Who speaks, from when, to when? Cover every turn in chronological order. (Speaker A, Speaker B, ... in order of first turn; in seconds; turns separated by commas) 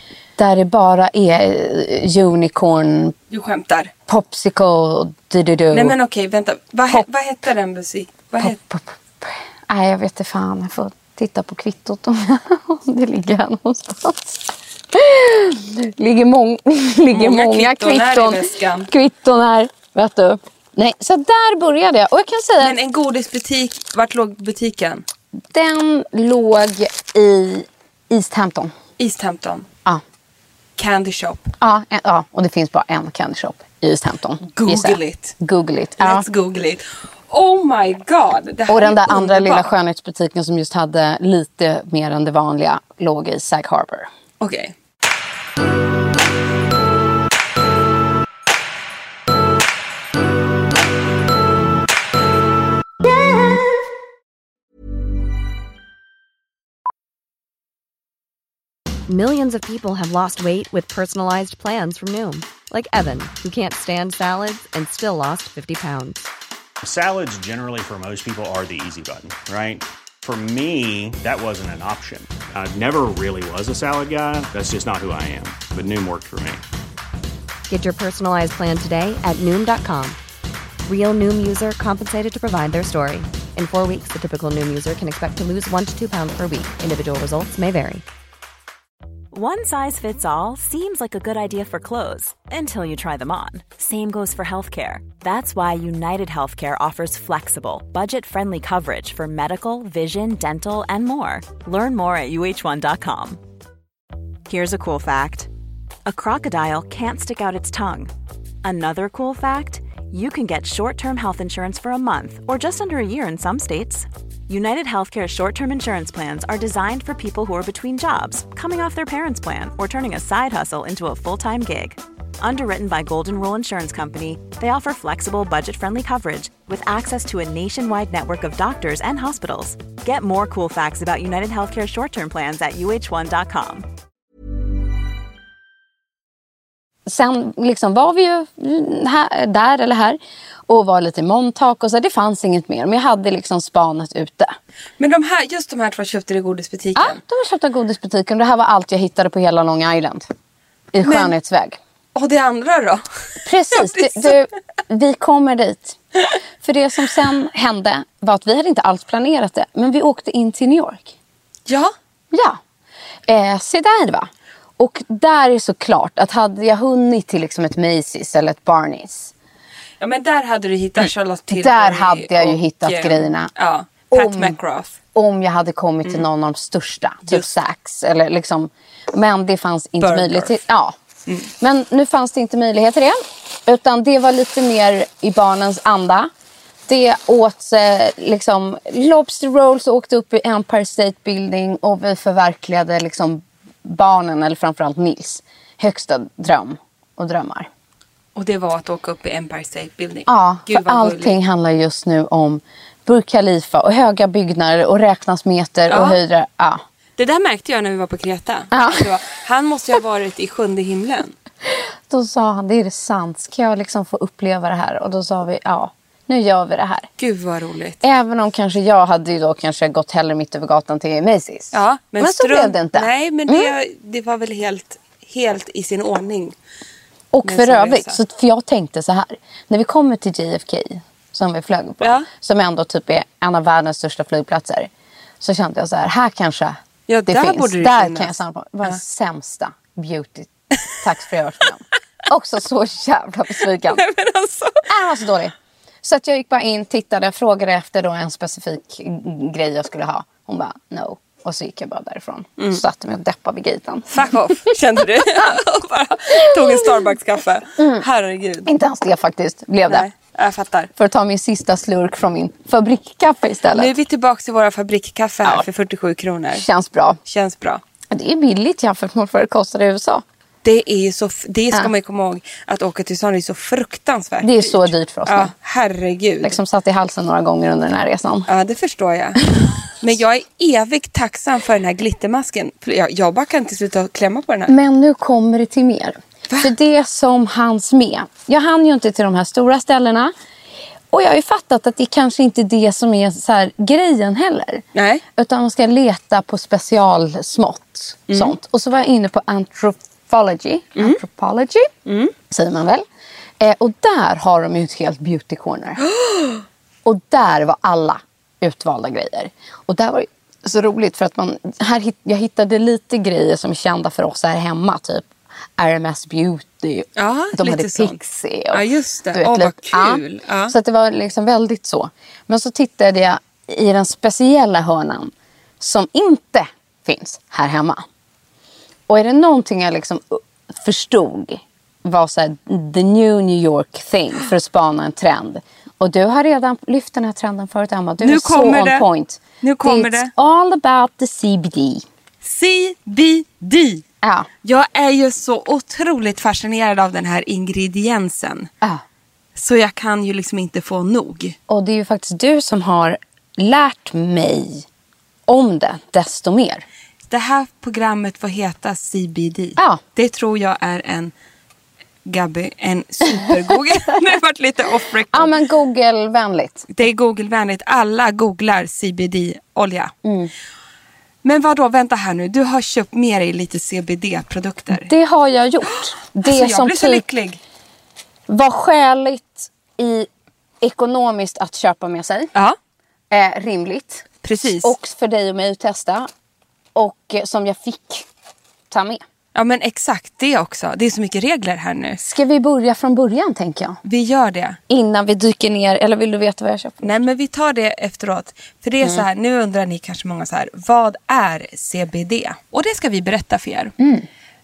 Speaker A: 0.4-3.1, Speaker B: 3.3-3.9, Speaker A: 4.1-6.0, Speaker B: 5.7-8.6, Speaker A: 8.4-22.8, Speaker B: 17.1-18.9, Speaker B: 22.6-25.0, Speaker A: 25.5-28.7, Speaker B: 29.0-29.7, Speaker B: 30.8-31.5, Speaker A: 31.6-36.2, Speaker B: 34.5-35.4, Speaker B: 36.0-39.7, Speaker A: 38.7-44.1, Speaker B: 44.4-44.7, Speaker C: 59.1-66.3, Speaker D: 66.8-76.6, Speaker C: 77.7-80.2, Speaker C: 80.9-88.0, Speaker E: 89.3-103.4, Speaker E: 104.5-105.5, Speaker E: 106.0-108.1, Speaker E: 108.6-133.9, Speaker A: 137.1-144.6, Speaker B: 145.0-147.2, Speaker A: 146.9-150.3, Speaker A: 150.9-151.8, Speaker B: 151.0-151.3, Speaker B: 152.1-153.0, Speaker A: 153.4-156.0, Speaker B: 153.7-154.4, Speaker A: 156.6-161.2, Speaker B: 161.7-161.9, Speaker A: 162.3-162.6, Speaker A: 163.3-169.3, Speaker B: 170.0-175.0, Speaker A: 171.0-173.5, Speaker A: 174.1-174.6, Speaker A: 175.1-181.0, Speaker B: 180.0-180.5, Speaker A: 181.6-186.3, Speaker A: 186.9-197.7, Speaker B: 198.3-201.4, Speaker A: 200.3-206.8, Speaker B: 205.9-206.2, Speaker B: 207.2-211.3, Speaker A: 208.7-209.1, Speaker A: 211.7-217.1, Speaker B: 217.2-218.0, Speaker A: 218.0-223.7, Speaker B: 221.7-226.6, Speaker A: 227.3-244.0, Speaker B: 227.4-228.2, Speaker B: 232.0-232.3, Speaker B: 237.1-238.9, Speaker B: 243.9-244.9, Speaker A: 244.9-254.5, Speaker B: 254.1-258.7, Speaker A: 256.4-256.9, Speaker A: 257.8-258.0, Speaker A: 258.6-260.1, Speaker B: 259.9-260.9, Speaker A: 261.0-263.9, Speaker B: 263.7-266.7, Speaker A: 266.5-267.2, Speaker B: 267.3-267.8, Speaker A: 268.1-270.2, Speaker B: 270.6-276.6, Speaker A: 274.4-275.5, Speaker A: 276.4-278.5, Speaker B: 278.5-279.4, Speaker B: 280.0-284.7, Speaker A: 284.7-290.3, Speaker A: 291.1-294.8, Speaker B: 294.9-295.2, Speaker A: 295.3-301.9, Speaker B: 298.3-298.5, Speaker B: 302.1-302.3, Speaker A: 302.5-303.0, Speaker A: 303.6-306.0, Speaker B: 306.1-306.6, Speaker A: 307.0-328.0, Speaker B: 317.2-318.2, Speaker B: 318.7-320.7, Speaker A: 329.1-342.0, Speaker B: 338.2-339.1, Speaker B: 339.6-340.3, Speaker B: 342.4-344.0, Speaker A: 344.2-344.5, Speaker B: 344.6-348.7, Speaker B: 349.6-351.6, Speaker A: 351.7-354.9, Speaker A: 355.5-356.8, Speaker B: 357.3-361.3, Speaker B: 362.2-365.5, Speaker A: 363.3-363.8, Speaker A: 365.3-366.9, Speaker B: 366.9-370.1, Speaker A: 370.2-370.5, Speaker B: 371.4-375.1, Speaker A: 374.9-377.2, Speaker B: 376.4-377.6, Speaker A: 378.5-380.3, Speaker A: 380.8-382.5, Speaker A: 383.3-386.3, Speaker B: 384.4-384.9, Speaker A: 386.9-388.3, Speaker A: 388.9-389.2, Speaker B: 389.5-392.2, Speaker A: 392.2-394.0, Speaker B: 394.0-394.8, Speaker A: 394.9-397.2, Speaker B: 397.0-403.9, Speaker A: 404.0-404.3